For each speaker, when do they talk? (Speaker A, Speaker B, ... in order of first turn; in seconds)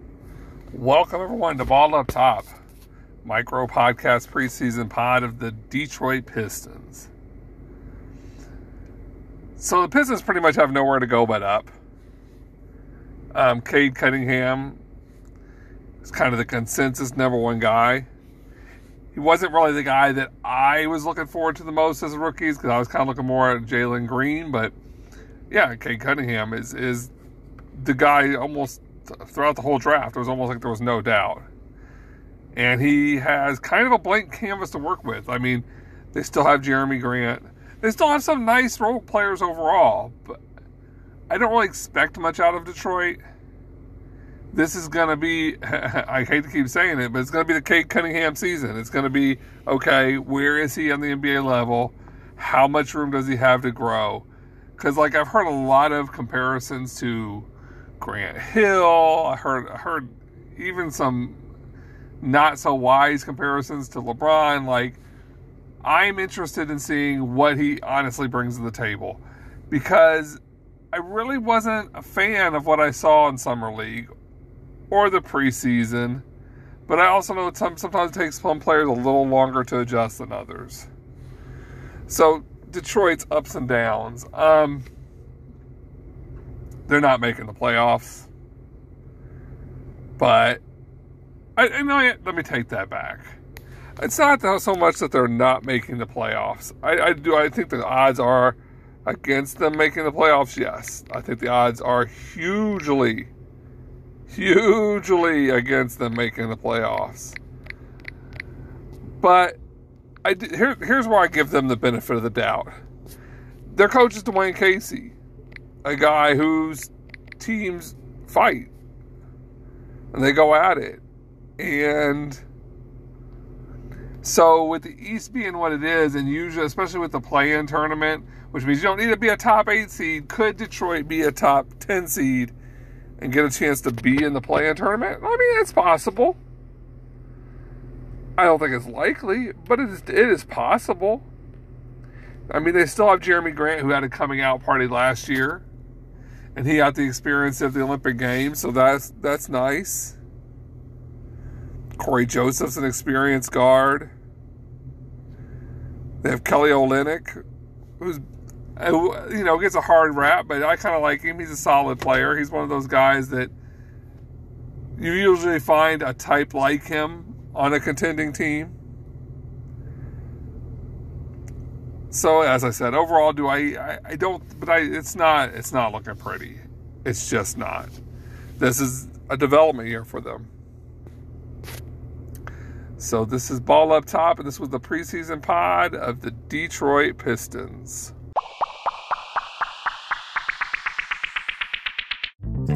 Speaker A: 0.7-2.5, 3.2-7.1, 9.6-11.7, 13.3-14.8, 16.0-18.1, 19.1-24.8, 25.5-27.1, 27.7-31.5, 32.5-40.4, 41.3-43.2, 44.5-54.3, 54.8-61.4, 62.2-65.0, 65.8-70.4, 70.9-74.1, 74.9-76.3, 76.9-80.9, 82.1-84.9, 86.9-88.3, 90.2-90.6, 91.6-93.4, 94.0-103.3, 104.3-107.4, 109.2-109.6, 110.2-112.7, 113.7-115.2, 115.8-118.7, 120.1-121.0, 121.6-122.4, 124.2-132.6, 133.2-136.4, 138.4-141.3, 142.5-145.7, 146.6-150.2, 152.0-154.1, 156.2-157.4, 158.0-158.2, 158.8-163.5, 165.0-168.8, 172.1-178.0, 178.6-180.5, 183.0-188.1